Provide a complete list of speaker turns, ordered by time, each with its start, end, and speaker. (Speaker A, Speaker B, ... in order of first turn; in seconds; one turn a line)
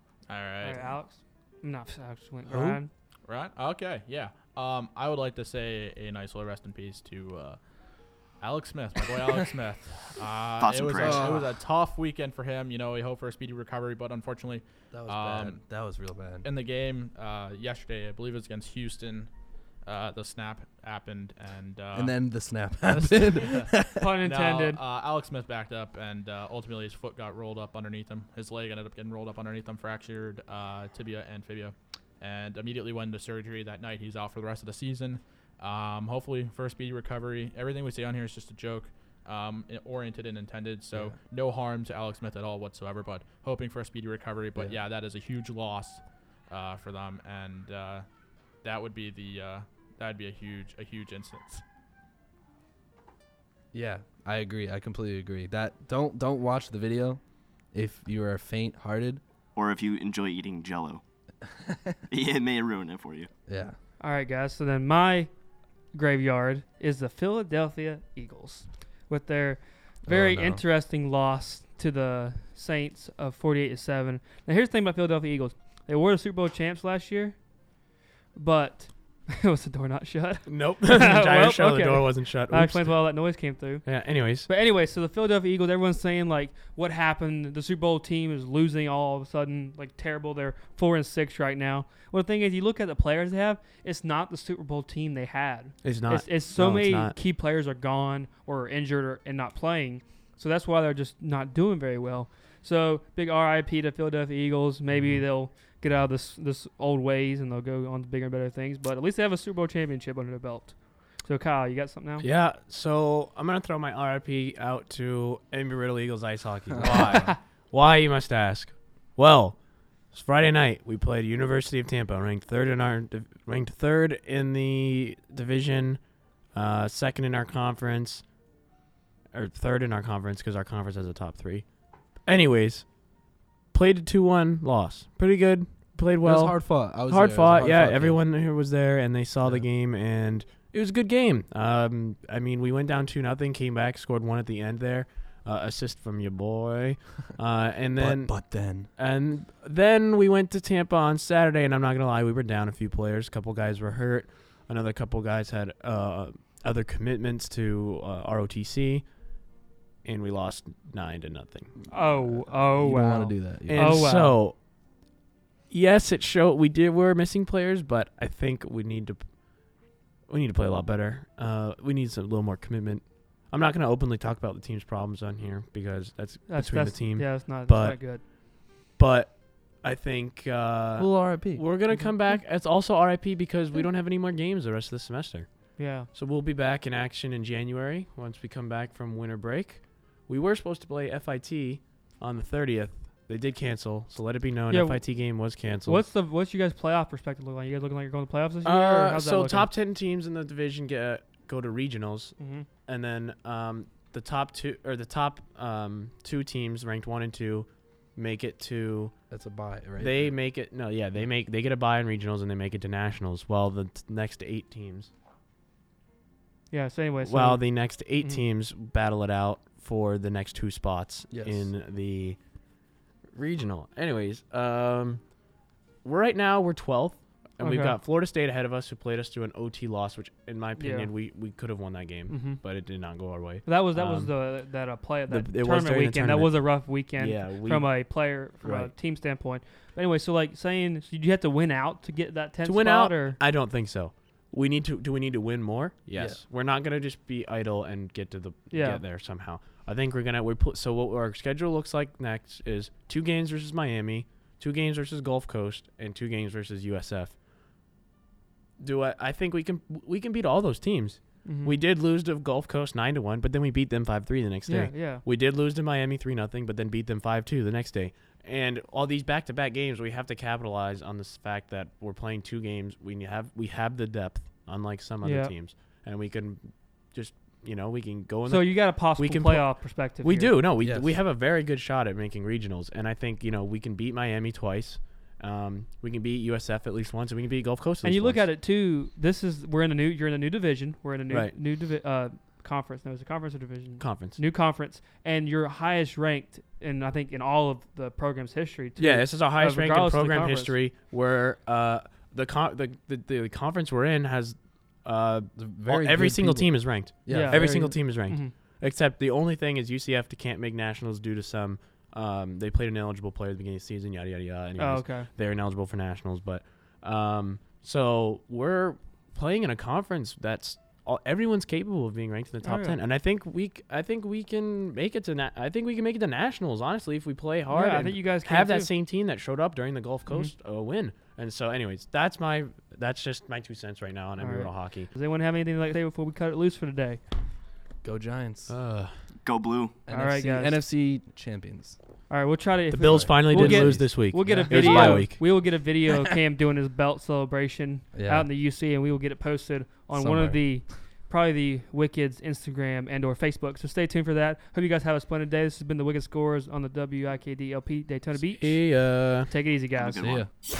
Speaker A: 0.3-0.9
Speaker B: 0.6-2.9
Speaker C: 2.5-2.8
Speaker A: 3.3-7.6
Speaker A: 8.4-15.6
Speaker D: 10.6-11.4
Speaker C: 10.9-11.5
Speaker C: 14.9-16.5
Speaker A: 16.4-19.3
Speaker A: 19.8-22.1
Speaker C: 21.9-24.1
Speaker A: 22.8-23.7
Speaker B: 23.9-24.8
Speaker A: 24.2-48.0
Speaker A: 48.6-51.6
Speaker C: 53.7-57.2
Speaker C: 57.7-59.2
Speaker D: 59.5-61.0
Speaker C: 61.4-62.0
Speaker D: 62.1-63.3
Speaker C: 63.5-63.8
Speaker B: 64.0-65.3
Speaker B: 65.9-77.4
Speaker C: 70.1-70.6
Speaker B: 78.3-112.3
Speaker E: 80.5-83.1
Speaker E: 83.8-84.5
Speaker E: 95.8-97.2
Speaker E: 112.2-119.6
Speaker C: 116.7-117.3
Speaker E: 120.1-126.0
Speaker E: 126.5-128.2
Speaker E: 129.3-131.6
Speaker E: 132.2-132.9
Speaker E: 133.7-159.1
Speaker C: 136.2-138.3
Speaker C: 148.0-148.9
Speaker E: 160.0-161.7
Speaker C: 161.9-164.1
Speaker B: 161.9-164.4
Speaker E: 163.7-164.6
Speaker E: 165.7-169.2
Speaker E: 170.3-178.2
Speaker B: 176.5-178.2
Speaker E: 178.9-196.0
Speaker C: 181.0-181.6
Speaker B: 185.8-186.1
Speaker B: 194.7-195.3
Speaker B: 195.8-199.7
Speaker E: 198.6-202.3
Speaker B: 202.4-202.7
Speaker E: 202.8-209.1
Speaker C: 209.3-210.4
Speaker E: 210.0-215.1
Speaker B: 216.7-217.7
Speaker E: 217.2-222.4
Speaker C: 221.3-221.7
Speaker E: 223.3-225.2
Speaker E: 226.0-234.3
Speaker B: 227.6-228.0
Speaker B: 230.8-231.1
Speaker B: 232.3-232.6
Speaker B: 233.6-243.4
Speaker E: 235.3-238.1
Speaker E: 238.6-238.9
Speaker E: 242.6-257.4
Speaker C: 246.1-246.4
Speaker B: 248.7-249.0
Speaker E: 258.8-288.5
Speaker B: 261.4-261.8
Speaker B: 264.7-265.2
Speaker B: 275.2-275.5
Speaker B: 278.5-280.6
Speaker C: 280.8-281.1
Speaker B: 288.0-300.8
Speaker E: 291.3-291.5
Speaker E: 294.0-294.4
Speaker E: 299.0-335.1
Speaker C: 305.6-308.0
Speaker B: 307.3-308.5
Speaker B: 314.8-315.3
Speaker B: 322.6-323.0
Speaker B: 327.7-328.9
Speaker B: 330.3-330.5
Speaker B: 334.4-337.2
Speaker C: 338.0-338.7
Speaker E: 338.7-339.1
Speaker D: 339.4-340.0
Speaker C: 340.1-342.0
Speaker B: 340.1-340.8
Speaker B: 342.3-360.2
Speaker E: 342.9-345.4
Speaker C: 343.0-345.3
Speaker C: 348.1-348.5
Speaker C: 350.1-350.7
Speaker E: 358.3-359.5
Speaker D: 360.0-360.4
Speaker C: 360.2-360.5